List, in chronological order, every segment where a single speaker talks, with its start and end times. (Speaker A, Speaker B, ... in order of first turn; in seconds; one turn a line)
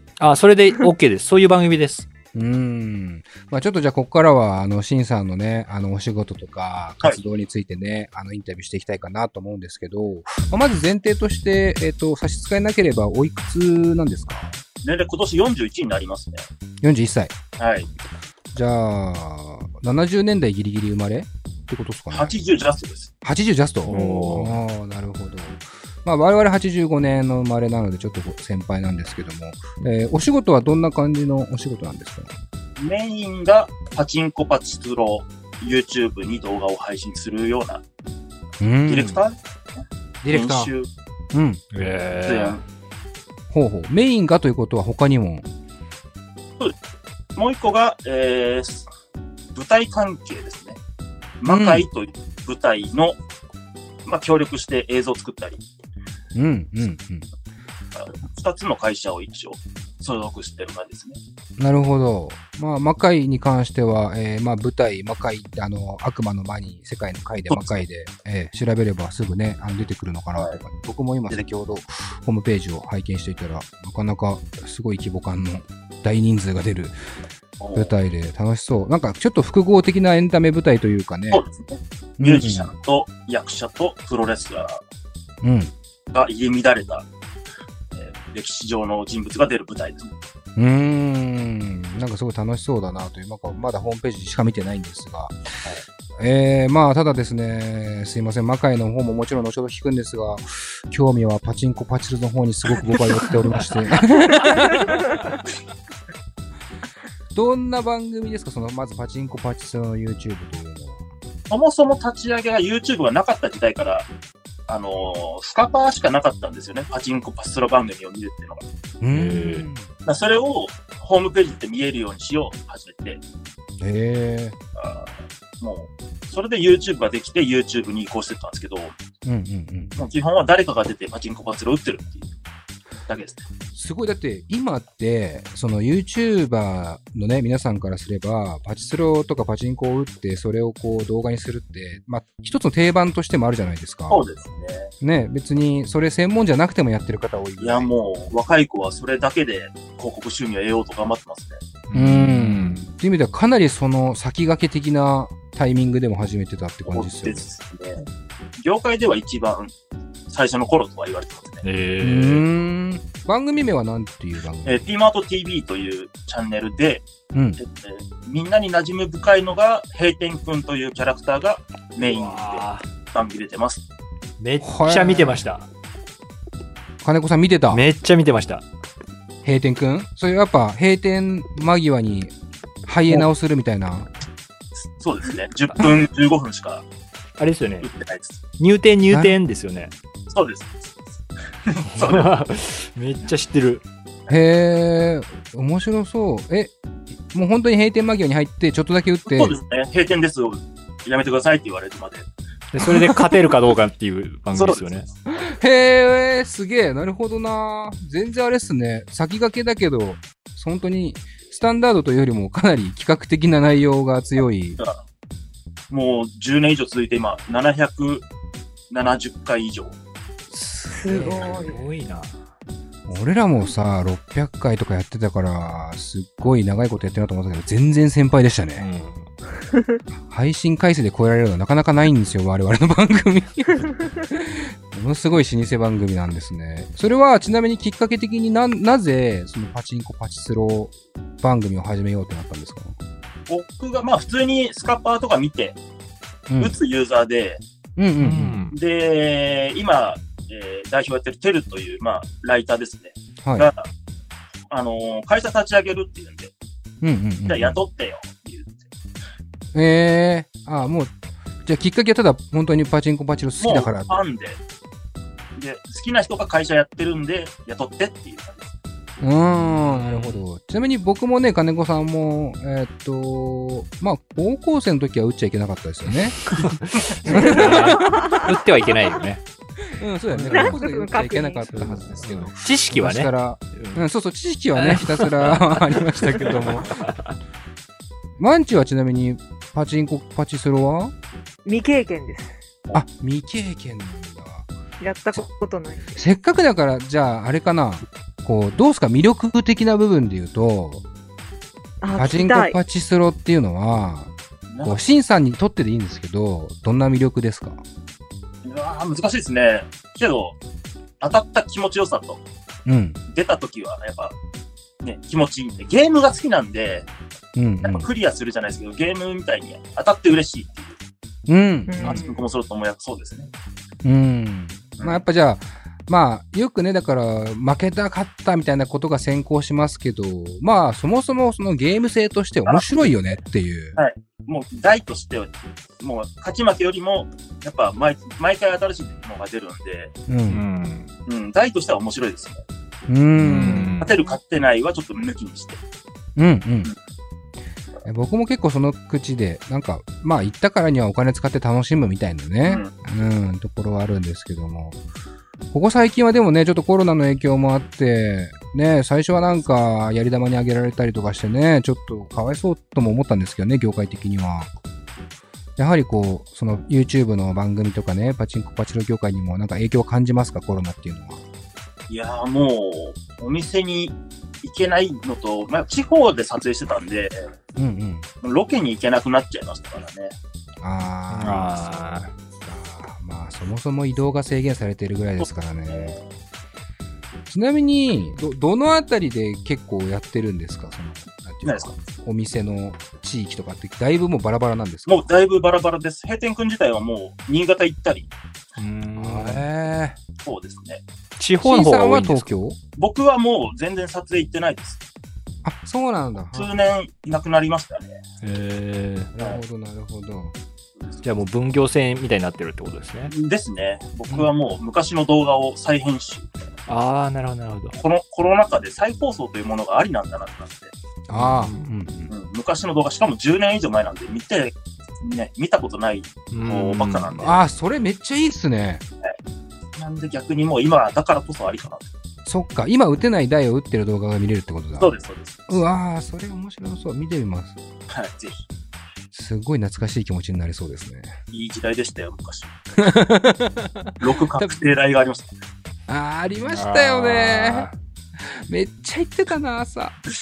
Speaker A: 0.2-2.1
Speaker B: 2.3-14.6
Speaker C: 14.8-16.5
Speaker B: 16.8-17.4
Speaker C: 17.6-17.9
Speaker B: 18.5-22.4
Speaker C: 22.1-23.1
Speaker B: 23.2-32.3
Speaker A: 23.9-24.6
Speaker C: 32.8-37.8
Speaker B: 38.6-39.2
Speaker C: 38.9-40.9
Speaker B: 40.2-40.7
Speaker B: 41.3-41.6
Speaker A: 41.7-42.6
Speaker C: 42.2-42.6
Speaker B: 43.5-45.5
Speaker C: 47.4-48.9
Speaker C: 49.5-50.8
Speaker C: 51.4-53.2
Speaker B: 51.5-51.9
Speaker C: 54.0-55.6
Speaker B: 56.3-57.3
Speaker C: 57.9-61.2
Speaker B: 61.6-77.0
Speaker C: 67.5-67.8
Speaker C: 70.3-70.6
Speaker C: 77.6-77.9
Speaker B: 77.8-81.4
Speaker C: 81.3-84.8
Speaker B: 82.2-82.7
Speaker B: 85.4-85.7
Speaker C: 86.1-87.1
Speaker C: 87.9-90.1
Speaker B: 90.6-95.3
Speaker B: 96.2-105.2
Speaker B: 107.3-111.0
Speaker C: 111.5-114.1
Speaker C: 114.7-118.6
Speaker B: 119.0-119.9
Speaker A: 119.1-119.7
Speaker C: 120.0-123.2
Speaker B: 123.8-124.6
Speaker C: 124.8-128.9
Speaker B: 129.2-130.0
Speaker C: 130.0-132.3
Speaker C: 133.1-133.5
Speaker B: 133.8-144.2
Speaker C: 144.1-144.9
Speaker B: 145.0-147.9
Speaker C: 147.6-151.6
Speaker A: 151.9-152.8
Speaker B: 151.9-157.5
Speaker C: 156.9-159.7
Speaker C: 160.3-161.6
Speaker A: 161.6-162.4
Speaker B: 162.0-164.9
Speaker C: 164.7-173.8
Speaker B: 167.3-167.6
Speaker A: 172.0-172.8
Speaker A: 174.4-175.7
Speaker B: 174.6-175.5
Speaker B: 177.0-177.8
Speaker A: 177.7-178.6
Speaker B: 179.4-182.3
Speaker B: 182.9-184.1
Speaker C: 184.8-186.8
Speaker A: 187.4-187.9
Speaker C: 187.8-188.4
Speaker A: 188.6-189.9
Speaker B: 189.1-189.3
Speaker C: 190.3-190.9
Speaker C: 191.6-192.3
Speaker A: 191.9-193.8
Speaker B: 194.3-199.6
Speaker C: 199.2-202.3
Speaker A: 202.7-205.1
Speaker C: 204.5-205.0
Speaker B: 205.3-214.8
Speaker C: 214.8-215.0
Speaker C: 215.9-218.2
Speaker C: 218.9-220.0
Speaker B: 220.5-221.8
Speaker D: 220.9-221.8
Speaker A: 221.1-222.3
Speaker B: 223.1-228.9
Speaker A: 228.8-229.3
Speaker B: 230.3-243.0
Speaker C: 243.5-245.8
Speaker B: 246.5-246.8
Speaker C: 246.6-247.6
Speaker B: 248.0-248.6
Speaker A: 248.2-248.8
Speaker C: 248.7-253.9
Speaker B: 253.4-253.7
Speaker C: 254.7-256.5
Speaker B: 257.0-257.8
Speaker C: 257.5-258.9
Speaker B: 259.7-261.1
Speaker B: 261.6-264.2
Speaker C: 263.6-264.6
Speaker C: 265.6-268.7
Speaker B: 269.2-278.3
Speaker A: 269.7-270.4
Speaker A: 276.4-279.4
Speaker D: 277.3-278.5
Speaker B: 279.9-287.1
Speaker A: 280.3-280.8
Speaker D: 280.5-281.7
Speaker A: 281.7-284.0
Speaker A: 284.8-287.4
Speaker B: 288.4-291.1
Speaker D: 291.6-292.6
Speaker B: 292.9-294.7
Speaker D: 295.0-296.2
Speaker B: 296.2-301.0
Speaker D: 302.0-302.8
Speaker B: 302.1-304.3
Speaker C: 304.7-305.0
Speaker B: 304.8-307.8
Speaker C: 308.6-310.6
Speaker C: 311.2-312.4
Speaker B: 312.9-313.2
Speaker C: 313.3-314.4
Speaker C: 315.0-317.1
Speaker B: 317.6-318.1
Speaker C: 317.8-321.0
Speaker B: 321.5-322.2
Speaker D: 321.9-322.4
Speaker C: 322.0-323.5
Speaker B: 324.0-334.0
Speaker C: 325.0-325.2
Speaker C: 332.7-333.1
Speaker C: 334.0-340.1
Speaker B: 340.3-340.6
Speaker A: 340.5-341.1
Speaker C: 341.3-342.6
Speaker B: 343.1-344.0
Speaker A: 343.4-344.2
Speaker C: 344.0-345.8
Speaker B: 346.4-346.9
Speaker B: 348.1-355.0
Speaker C: 352.6-352.9
Speaker B: 355.7-364.7
Speaker B: 365.8-371.4
Speaker C: 372.1-377.5
Speaker B: 377.8-378.3
Speaker C: 378.4-380.4
Speaker B: 380.8-386.2
Speaker A: 381.3-382.3
Speaker C: 385.4-386.3
Speaker B: 387.5-395.3
Speaker C: 391.6-392.0
Speaker C: 395.1-398.3
Speaker A: 398.8-399.7
Speaker B: 399.2-400.2
Speaker C: 400.4-401.0
Speaker A: 401.4-402.5
Speaker B: 401.6-402.8
Speaker C: 403.0-405.0
Speaker B: 405.6-406.7
Speaker C: 406.6-408.2
Speaker A: 408.4-409.3
Speaker B: 409.3-410.6
Speaker C: 411.0-411.2
Speaker A: 411.2-413.3
Speaker C: 413.3-416.7
Speaker A: 416.9-418.0
Speaker C: 418.0-420.9
Speaker B: 421.3-422.3
Speaker A: 421.3-421.9
Speaker C: 422.3-427.6
Speaker A: 426.5-427.6
Speaker B: 427.4-429.0
Speaker C: 430.0-432.1
Speaker B: 432.4-435.1
Speaker C: 434.9-435.8
Speaker B: 435.7-437.8
Speaker C: 438.1-438.6
Speaker B: 439.3-441.4
Speaker C: 441.5-442.8
Speaker B: 443.0-444.9
Speaker C: 444.2-445.6
Speaker B: 446.1-450.2
Speaker A: 446.7-447.9